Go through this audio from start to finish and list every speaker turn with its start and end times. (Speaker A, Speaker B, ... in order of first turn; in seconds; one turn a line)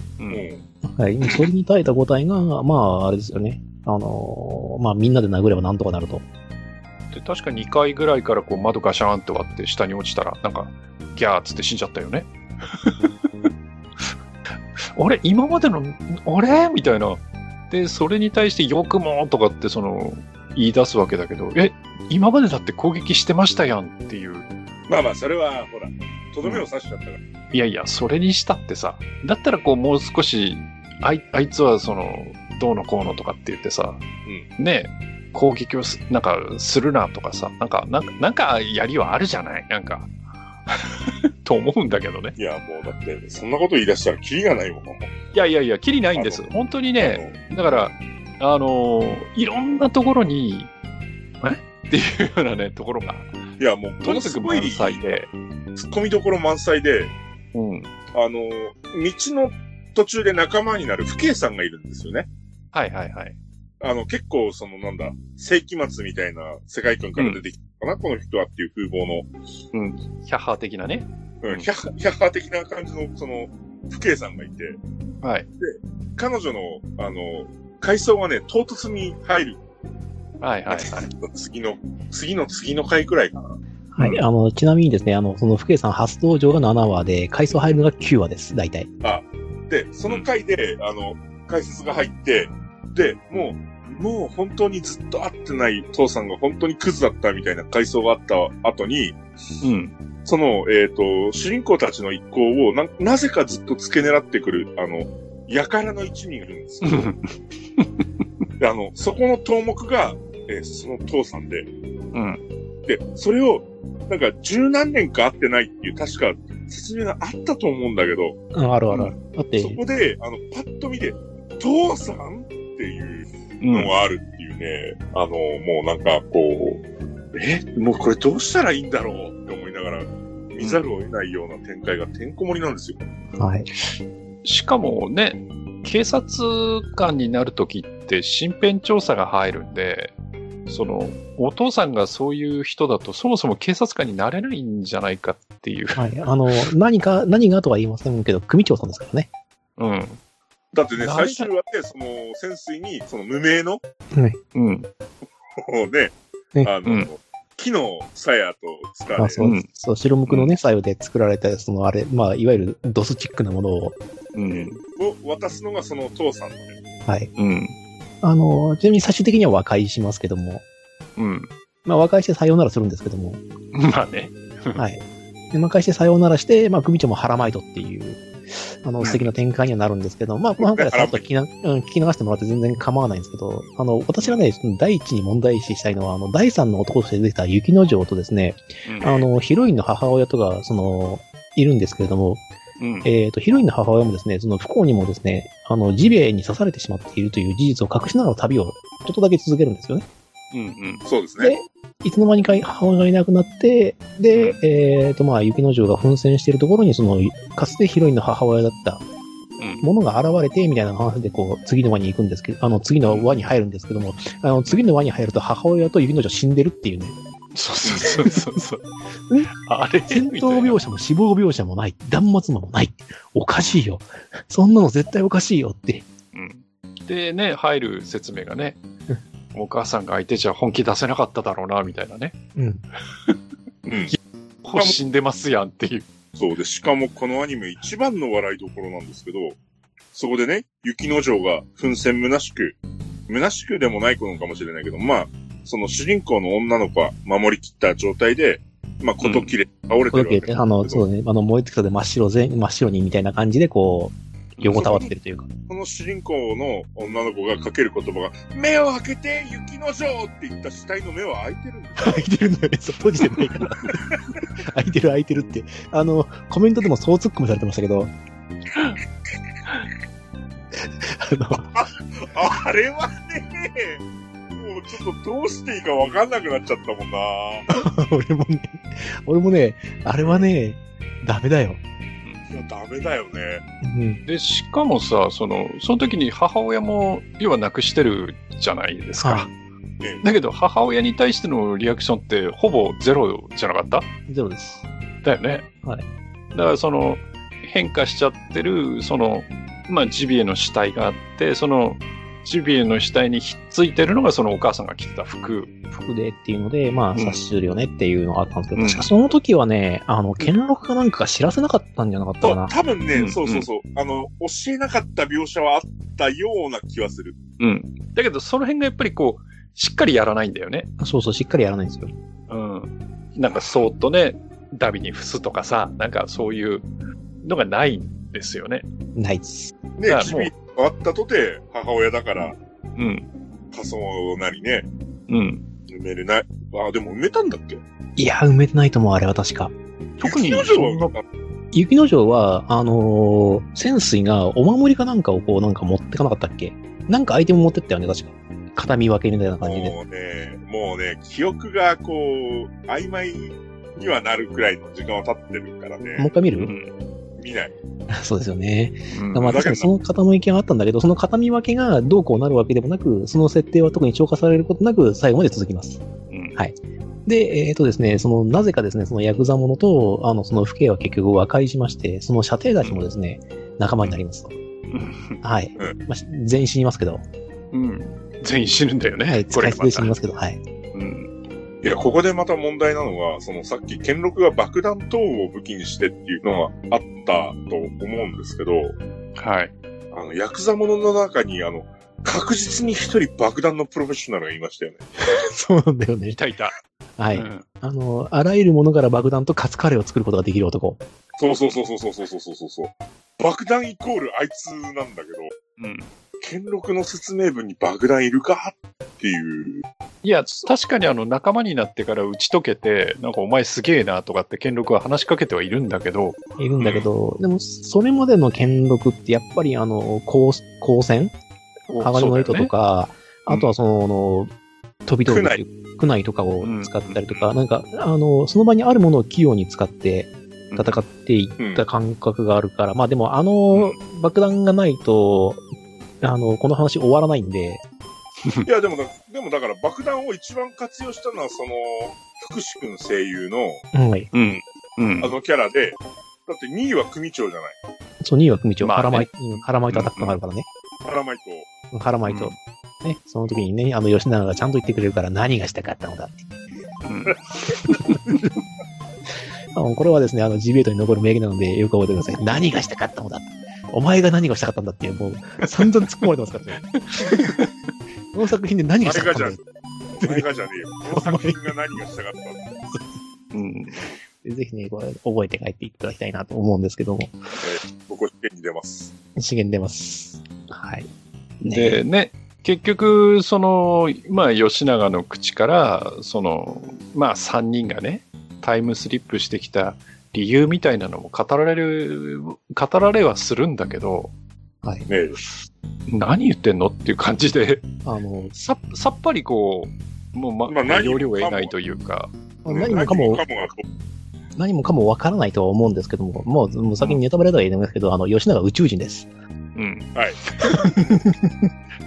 Speaker A: 0.2-0.5
Speaker B: 0.3-0.6
Speaker C: 0.8-6.2
Speaker A: 7.1-13.5
Speaker A: 14.9-24.5
Speaker B: 24.9-27.2
Speaker A: 27.5-34.0
Speaker A: 34.6-40.1
Speaker A: 40.7-42.4
Speaker B: 42.4-45.1
Speaker A: 45.3-50.7
Speaker B: 46.1-46.5
Speaker B: 47.0-47.3
Speaker A: 51.4-53.3
Speaker B: 53.6-55.0
Speaker A: 54.0-55.3
Speaker B: 55.8-57.1
Speaker A: 57.5-57.9
Speaker B: 58.1-62.3
Speaker A: 62.7-63.4
Speaker B: 63.8-69.3
Speaker A: 69.7-71.7
Speaker B: 71.4-74.8
Speaker A: 75.2-75.5
Speaker B: 75.6-79.6
Speaker A: 80.4-81.1
Speaker B: 80.7-83.6
Speaker C: 83.9-88.9
Speaker B: 89.0-99.2
Speaker A: 99.6-99.9
Speaker B: 100.2-107.1
Speaker A: 106.8-108.0
Speaker B: 108.6-111.7
Speaker A: 112.1-112.4
Speaker B: 112.8-118.4
Speaker C: 118.5-119.8
Speaker B: 119.6-126.8
Speaker A: 123.6-123.9
Speaker B: 127.3-133.0
Speaker C: 133.4-133.7
Speaker A: 134.4-140.1
Speaker A: 140.7-146.2
Speaker C: 145.9-149.3
Speaker A: 149.8-150.2
Speaker B: 150.7-153.8
Speaker A: 151.0-151.5
Speaker C: 154.1-154.4
Speaker A: 154.5-154.9
Speaker B: 155.6-159.4
Speaker C: 159.1-164.0
Speaker A: 159.4-159.7
Speaker A: 160.3-160.5
Speaker A: 164.3-164.8
Speaker B: 164.5-166.8
Speaker A: 167.4-167.8
Speaker C: 168.2-170.6
Speaker A: 171.2-171.5
Speaker C: 171.8-173.4
Speaker A: 173.7-174.8
Speaker C: 174.8-192.4
Speaker A: 179.0-179.3
Speaker B: 180.6-181.2
Speaker A: 184.2-184.4
Speaker A: 188.8-189.2
Speaker A: 192.8-193.1
Speaker C: 193.0-200.1
Speaker A: 200.5-201.0
Speaker B: 201.0-201.5
Speaker C: 201.4-209.0
Speaker A: 204.3-204.6
Speaker A: 209.6-209.8
Speaker C: 209.8-217.2
Speaker A: 213.1-213.4
Speaker A: 217.5-218.9
Speaker C: 218.0-218.4
Speaker A: 219.4-220.8
Speaker C: 220.1-226.1
Speaker A: 226.3-228.8
Speaker A: 229.5-232.3
Speaker C: 232.6-232.8
Speaker B: 233.8-234.2
Speaker A: 234.6-236.1
Speaker B: 236.3-239.6
Speaker B: 240.1-251.0
Speaker A: 249.2-249.5
Speaker C: 250.1-255.5
Speaker A: 254.6-254.8
Speaker B: 254.7-255.1
Speaker B: 255.7-262.2
Speaker C: 262.0-268.1
Speaker C: 270.7-271.7
Speaker B: 271.7-274.0
Speaker B: 274.6-277.7
Speaker C: 277.7-281.8
Speaker B: 280.2-280.5
Speaker B: 282.5-283.6
Speaker C: 283.8-284.2
Speaker A: 284.2-289.5
Speaker C: 289.2-289.5
Speaker A: 290.2-294.1
Speaker C: 294.3-294.8
Speaker A: 295.2-295.7
Speaker A: 296.5-305.7
Speaker C: 305.9-312.7
Speaker A: 307.1-307.4
Speaker A: 308.7-309.1
Speaker B: 312.4-317.4
Speaker A: 313.1-313.7
Speaker A: 317.6-320.9
Speaker C: 321.0-322.1
Speaker A: 322.5-326.9
Speaker A: 327.4-328.9
Speaker C: 329.1-329.7
Speaker B: 330.0-332.6
Speaker A: 330.1-330.5
Speaker A: 332.9-333.3
Speaker B: 333.7-334.9
Speaker A: 335.3-335.6
Speaker B: 335.9-337.8
Speaker C: 338.2-339.7
Speaker A: 340.2-341.1
Speaker B: 340.2-341.2
Speaker C: 341.7-349.9
Speaker B: 349.6-356.3
Speaker C: 356.2-356.7
Speaker A: 356.6-356.9
Speaker B: 357.4-357.7
Speaker C: 358.1-366.0
Speaker A: 359.1-359.6
Speaker B: 359.4-359.9
Speaker A: 366.3-366.6
Speaker C: 366.6-374.5
Speaker A: 374.9-375.4
Speaker C: 375.4-377.2
Speaker A: 377.7-380.1
Speaker C: 379.2-380.6
Speaker A: 380.9-381.3
Speaker B: 381.8-388.9
Speaker A: 389.4-389.7
Speaker B: 390.1-395.0
Speaker C: 395.3-396.4
Speaker A: 396.4-396.8
Speaker C: 397.2-401.0
Speaker A: 397.3-397.6
Speaker B: 401.4-405.5
Speaker A: 405.8-406.1
Speaker B: 406.4-409.8
Speaker A: 410.2-417.1
Speaker C: 416.6-421.3
Speaker A: 421.9-422.7
Speaker C: 421.9-424.5
Speaker C: 425.1-435.6
Speaker B: 425.3-425.6
Speaker A: 426.6-427.4
Speaker A: 430.7-431.0
Speaker B: 431.6-431.8
Speaker A: 433.7-434.0
Speaker C: 436.2-437.8
Speaker B: 438.6-443.8
Speaker C: 443.9-444.3
Speaker A: 444.3-445.3
Speaker B: 445.2-447.8
Speaker C: 448.2-450.7
Speaker A: 448.8-449.3
Speaker A: 449.9-450.4
Speaker B: 451.0-451.7
Speaker C: 451.9-456.4
Speaker A: 452.3-452.6
Speaker A: 457.0-458.2
Speaker C: 458.1-458.5
Speaker C: 459.7-467.5
Speaker A: 467.0-467.7
Speaker C: 468.3-469.6
Speaker B: 469.0-469.6
Speaker B: 470.1-472.6
Speaker C: 470.2-470.5
Speaker C: 471.1-471.6
Speaker A: 473.5-474.1
Speaker C: 474.4-477.4
Speaker B: 477.6-479.1
Speaker C: 479.4-481.1
Speaker C: 481.6-482.0
Speaker A: 481.7-494.3
Speaker B: 495.1-495.4
Speaker A: 496.1-497.9
Speaker C: 498.0-498.6
Speaker A: 498.6-502.3
Speaker B: 500.7-501.7
Speaker C: 502.6-503.4
Speaker B: 502.7-503.8
Speaker C: 504.6-509.3
Speaker A: 509.7-511.0
Speaker B: 510.1-510.4
Speaker C: 510.6-511.7